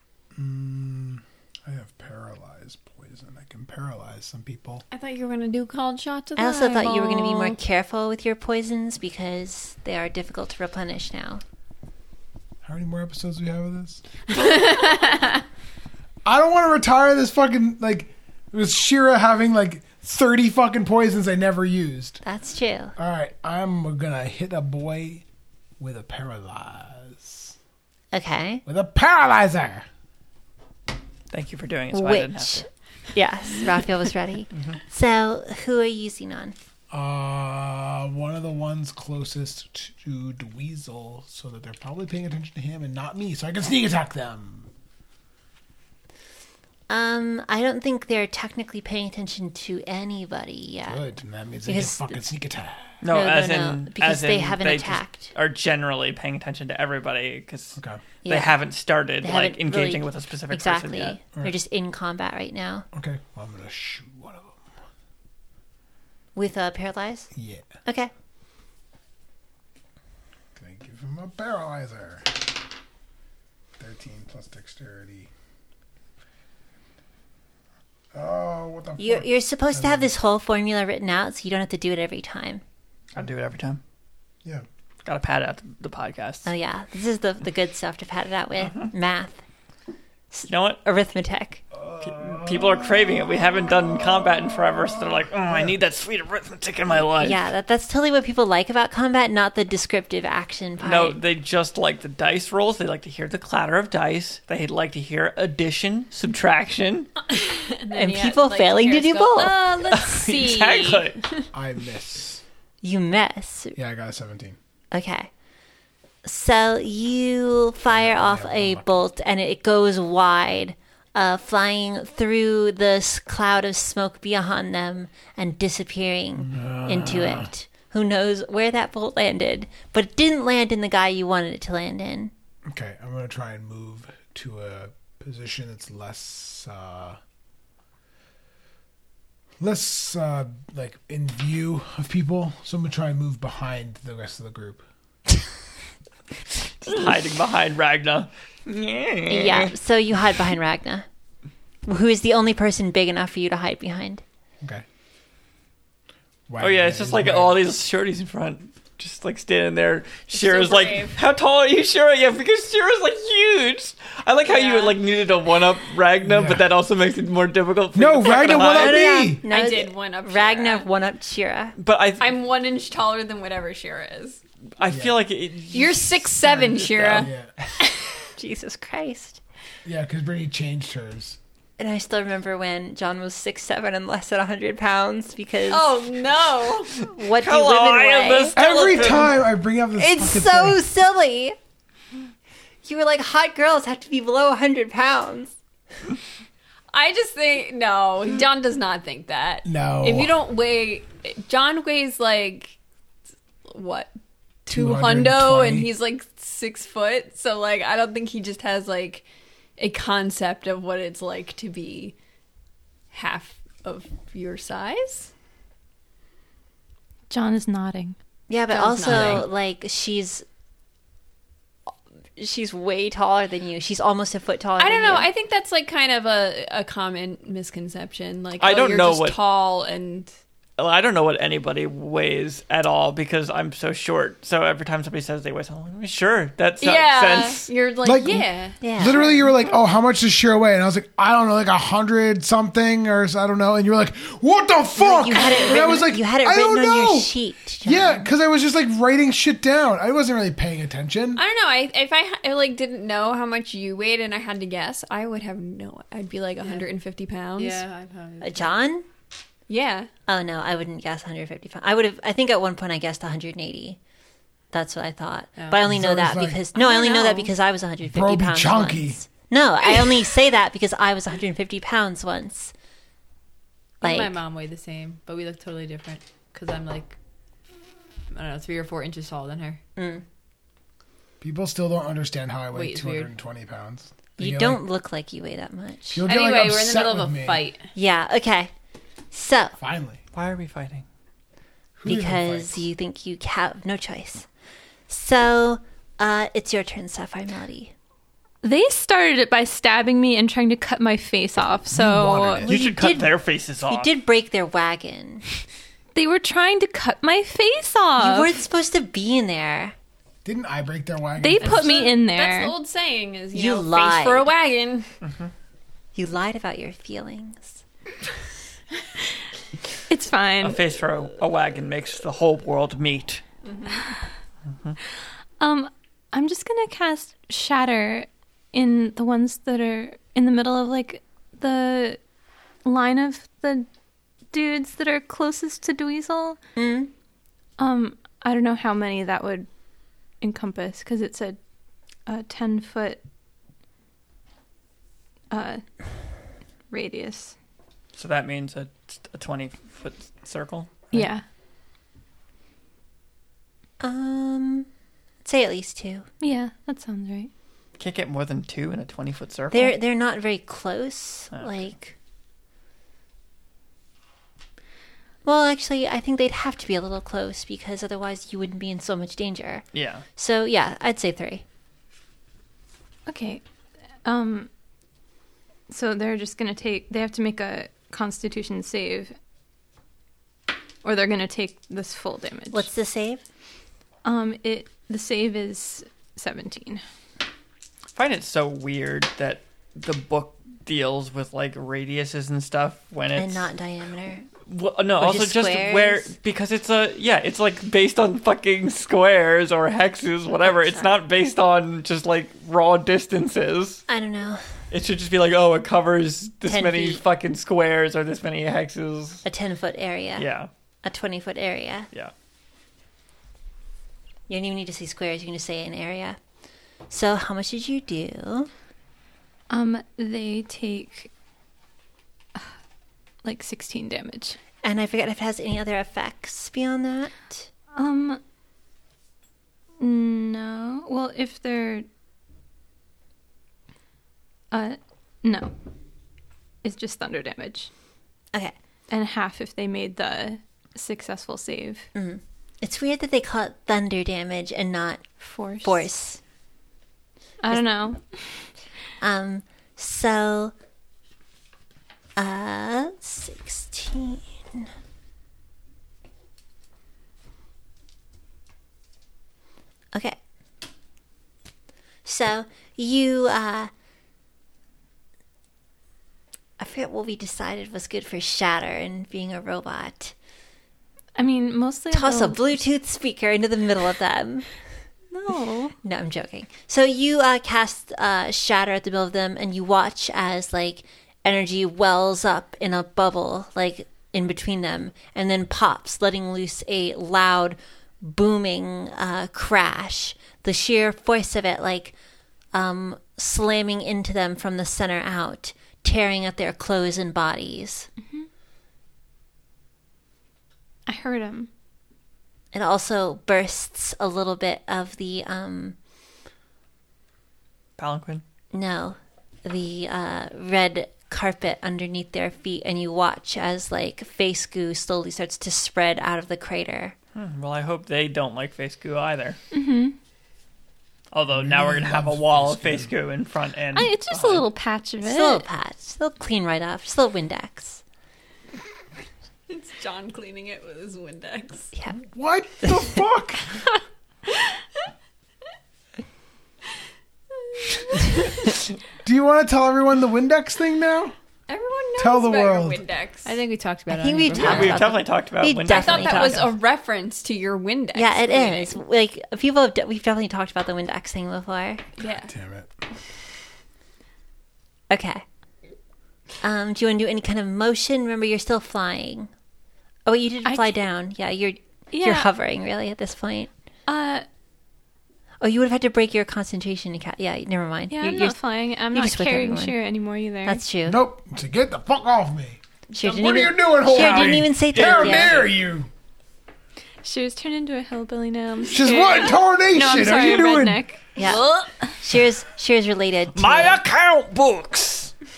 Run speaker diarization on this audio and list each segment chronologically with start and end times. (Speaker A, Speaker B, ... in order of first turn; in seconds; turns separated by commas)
Speaker A: 0.3-4.8, Speaker B: 4.9-7.6, Speaker C: 6.4-11.4, Speaker A: 12.6-14.0, Speaker B: 14.3-15.4, Speaker A: 16.2-22.2, Speaker C: 22.2-22.9, Speaker A: 22.9-25.2, Speaker A: 25.8-27.5, Speaker C: 28.1-28.6, Speaker A: 28.6-29.9, Speaker D: 31.3-32.7, Speaker C: 31.9-36.5, Speaker D: 34.5-34.8, Speaker A: 36.9-44.7, Speaker C: 46.9-51.0, Speaker A: 50.9-53.0, Speaker C: 51.6-52.2, Speaker D: 53.0-61.2, Speaker C: 53.1-55.3, Speaker A: 57.8-58.0, Speaker C: 58.2-58.5, Speaker C: 59.2-62.9, Speaker A: 62.9-64.6, Speaker C: 66.3-67.3, Speaker A: 67.3-67.7, Speaker C: 67.8-68.1, Speaker A: 70.5-72.6, Speaker A: 73.8-75.3, Speaker A: 78.1-80.1, Speaker C: 79.0-82.6, Speaker D: 83.1-83.8, Speaker D: 85.0-86.5, Speaker C: 86.4-89.4, Speaker D: 88.6-88.9, Speaker C: 90.3-91.6, Speaker D: 90.5-90.8, Speaker A: 91.7-93.1, Speaker D: 92.0-97.4, Speaker A: 95.5-95.7, Speaker C: 97.2-101.2, Speaker D: 100.8-107.1, Speaker B: 107.3-111.5, Speaker C: 107.9-109.7, Speaker D: 109.9-111.2, Speaker A: 111.5-112.4, Speaker C: 112.8-113.8, Speaker A: 113.7-114.6, Speaker C: 114.9-115.3, Speaker C: 116.2-132.3, Speaker A: 117.9-118.9, Speaker A: 126.4-127.5, Speaker A: 132.7-137.2, Speaker A: 139.6-144.8, Speaker D: 146.8-149.7, Speaker C: 149.3-151.1, Speaker C: 151.8-154.2, Speaker A: 156.5-157.7, Speaker D: 156.6-169.1, Speaker B: 160.3-161.2, Speaker B: 164.4-165.0, Speaker A: 166.2-166.7, Speaker A: 167.9-169.5, Speaker C: 168.2-171.8, Speaker B: 169.5-170.9, Speaker D: 171.8-172.4, Speaker B: 172.2-174.4, Speaker D: 174.8-177.3, Speaker A: 174.9-175.1, Speaker B: 175.7-177.3, Speaker A: 177.1-177.8, Speaker C: 178.4-179.4, Speaker A: 179.8-181.4, Speaker C: 181.8-186.0, Speaker B: 185.7-187.0, Speaker C: 187.1-189.2, Speaker D: 187.3-189.3, Speaker A: 188.5-190.8, Speaker C: 190.0-191.6, Speaker C: 192.8-195.5, Speaker B: 196.9-202.8, Speaker A: 199.6-200.3, Speaker B: 203.7-204.1, Speaker B: 204.7-209.2, Speaker A: 204.7-205.9, Speaker B: 209.8-212.1, Speaker B: 213.1-215.3, Speaker E: 217.3-218.2, Speaker C: 218.5-220.4, Speaker B: 218.7-219.4, Speaker A: 219.1-219.4, Speaker C: 222.4-225.3, Speaker B: 224.8-230.3, Speaker D: 228.6-229.4, Speaker D: 230.8-237.7, Speaker B: 236.8-239.8, Speaker A: 238.0-251.4, Speaker C: 238.8-239.2, Speaker C: 245.0-248.3, Speaker B: 245.4-245.7, Speaker B: 251.3-257.8, Speaker F: 257.6-258.7, Speaker C: 258.4-259.1, Speaker B: 259.7-260.1, Speaker C: 260.3-264.0, Speaker C: 264.7-272.7, Speaker F: 265.6-265.8, Speaker A: 265.8-266.7, Speaker B: 266.8-267.4, Speaker A: 268.1-269.2, Speaker C: 274.0-274.4, Speaker F: 274.0-277.2, Speaker F: 278.3-279.8, Speaker C: 280.0-280.2, Speaker A: 281.4-284.8, Speaker F: 282.7-283.3, Speaker C: 284.4-286.2, Speaker A: 286.1-287.7, Speaker F: 286.3-287.9, Speaker C: 287.9-288.7, Speaker C: 289.3-289.8, Speaker A: 289.8-290.2, Speaker D: 290.3-291.0, Speaker A: 292.0-292.9, Speaker C: 292.1-294.5, Speaker C: 295.1-297.9, Speaker E: 298.6-302.6, Speaker A: 301.9-302.8, Speaker D: 302.7-304.1, Speaker C: 302.7-303.3, Speaker C: 303.9-305.4, Speaker E: 306.1-308.5, Speaker C: 308.2-309.9, Speaker A: 310.4-312.1, Speaker E: 311.4-312.7, Speaker B: 311.6-315.1, Speaker C: 313.5-314.5, Speaker D: 315.2-315.5, Speaker C: 316.1-317.8, Speaker E: 320.1-320.8, Speaker D: 320.6-323.4, Speaker B: 323.6-324.1, Speaker E: 325.6-332.2, Speaker E: 332.8-333.9, Speaker E: 334.5-336.6, Speaker C: 336.8-337.1, Speaker E: 337.8-339.7, Speaker E: 340.4-341.6, Speaker E: 342.2-343.2, Speaker E: 345.5-345.8, Speaker E: 346.9-347.5, Speaker D: 348.1-351.3, Speaker E: 351.1-351.4, Speaker C: 354.0-354.9, Speaker C: 355.4-356.2, Speaker E: 356.4-357.5, Speaker D: 358.0-359.9, Speaker C: 359.7-362.1, Speaker D: 361.5-361.8, Speaker C: 365.4-371.6, Speaker D: 369.9-370.2, Speaker E: 373.3-373.6, Speaker E: 374.2-374.7, Speaker E: 375.9-379.3, Speaker E: 381.0-382.9, Speaker C: 382.7-383.4, Speaker E: 384.2-387.0, Speaker D: 388.1-393.7, Speaker C: 393.3-394.4, Speaker D: 394.7-404.0, Speaker C: 395.2-396.3, Speaker C: 400.6-401.1, Speaker C: 404.1-404.6, Speaker D: 404.9-409.4, Speaker C: 406.6-407.2, Speaker C: 409.4-410.4, Speaker D: 410.4-410.7, Speaker C: 411.0-412.1, Speaker C: 414.5-416.4, Speaker C: 417.1-418.7, Speaker E: 419.7-421.3, Speaker E: 423.4-424.6, Speaker C: 424.8-427.7, Speaker E: 427.9-428.4, Speaker E: 430.0-432.1, Speaker E: 434.7-435.7, Speaker E: 436.8-437.9, Speaker E: 439.1-442.1, Speaker C: 442.1-445.2, Speaker E: 445.4-446.0, Speaker C: 445.8-446.4, Speaker E: 447.6-448.7, Speaker C: 449.2-450.7, Speaker C: 452.4-454.9, Speaker C: 462.2-463.9, Speaker C: 466.8-470.3, Speaker E: 471.4-472.6, Speaker C: 472.1-474.7, Speaker E: 475.3-475.9, Speaker C: 476.0-492.1, Speaker C: 492.7-498.1, Speaker E: 501.1-501.7, Speaker C: 502.7-505.9, Speaker D: 508.0-508.4, Speaker C: 508.7-517.1, Speaker D: 517.3-519.6, Speaker E: 519.7-520.1, Speaker D: 521.3-524.7, Speaker A: 521.5-523.1, Speaker E: 523.9-525.6, Speaker C: 525.2-528.0, Speaker B: 529.7-531.9, Speaker A: 532.2-533.7, Speaker C: 532.8-533.2, Speaker B: 537.6-538.6, Speaker A: 539.2-541.3, Speaker B: 541.7-543.6, Speaker A: 542.2-543.0, Speaker F: 543.4-545.0, Speaker C: 544.1-546.6, Speaker D: 544.5-546.7, Speaker B: 545.9-548.9, Speaker C: 548.1-552.0, Speaker B: 552.2-552.5, Speaker A: 552.4-552.9, Speaker C: 555.1-555.4, Speaker C: 556.6-559.5, Speaker C: 560.2-563.7, Speaker E: 560.6-560.9, Speaker E: 562.1-562.5, Speaker E: 564.1-564.4, Speaker C: 565.6-568.6, Speaker E: 568.1-570.8, Speaker C: 569.1-570.0, Speaker C: 570.6-571.2, Speaker A: 571.0-576.1, Speaker C: 573.1-575.6, Speaker B: 573.3-573.6, Speaker D: 574.1-575.7, Speaker E: 577.2-582.1, Speaker A: 578.9-581.1, Speaker C: 581.4-581.6, Speaker C: 582.2-584.0, Speaker D: 583.5-585.3